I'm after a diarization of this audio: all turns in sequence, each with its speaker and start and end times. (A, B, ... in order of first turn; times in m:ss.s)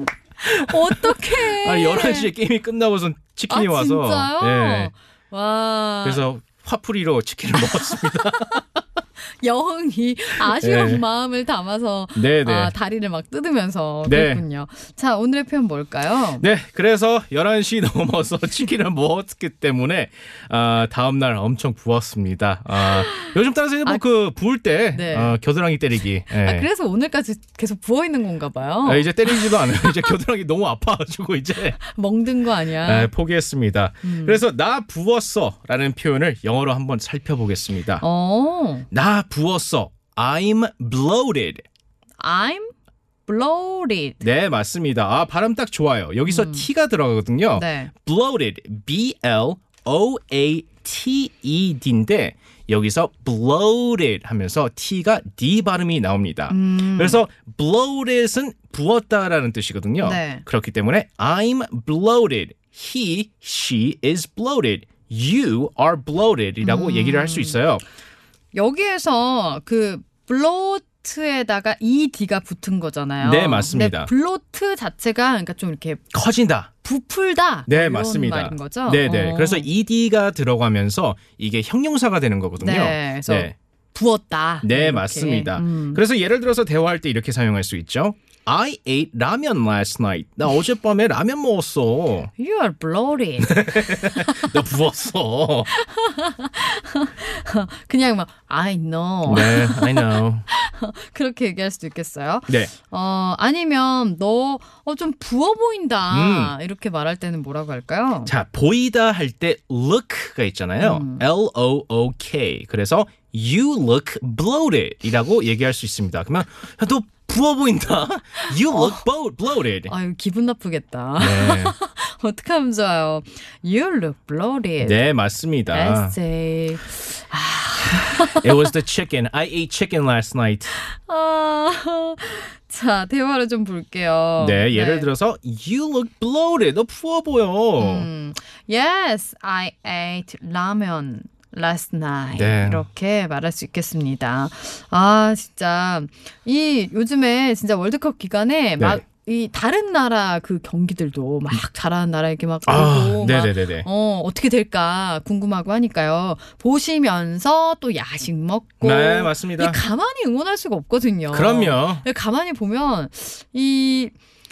0:00.4-0:02.3 A
0:00.5-0:04.9 B
0:03.5-0:06.2 A
0:06.0-0:08.6 B
0:07.9-0:08.6 A
0:09.3-0:16.4 A
0:10.4-0:11.0 B
0:12.2-0:12.7 B
0:14.0-0:14.4 B
0:16.4-0:26.7 B
0:22.8-0:23.3 A
0:24.9-0:25.4 A
0:26.3-0:30.1 A
0:28.8-0:31.8 B
0:31.8-0:33.1 A
0:32.8-0:38.0 B
0:34.0-0:34.4 A
0:38.0-0:38.9 A
0:38.9-0:41.6 B
0:42.2-0:42.7 A
0:43.3-0:44.2 A
0:44.2-1:07.8 B
0:46.2-0:46.6 A
0:47.5-0:47.9 A
0:56.5-0:57.2 A
1:00.0-1:00.4 A
1:06.6-1:07.6 A
1:08.5-1:16.0 A
1:13.2-1:14.1 B
1:16.1-1:16.7 B
1:16.8-1:19.7 A
1:17.7-1:23.5 B
1:22.6-1:26.0 A
1:24.6-1:32.3 B
1:32.4-1:34.5 A
1:33.4-1:35.7 B
1:35.7-1:48.3 A
1:39.3-1:40.4 B
1:46.1-1:46.5 B
1:48.3-1:59.9 B
1:50.8-1:51.2 A
1:58.7-1:59.0 A
1:59.8-2:05.0 A
2:01.2-2:01.7 B
2:04.8-2:06.2 B
2:05.7-2:08.4 A
2:08.4-2:10.7 B
2:10.8-2:15.1 A
2:14.4-2:18.1 B
2:17.8-2:44.1 A
2:22.4-2:22.8 B
2:32.7-2:33.8 B
2:38.8-2:39.8 B
2:41.3-2:42.0 B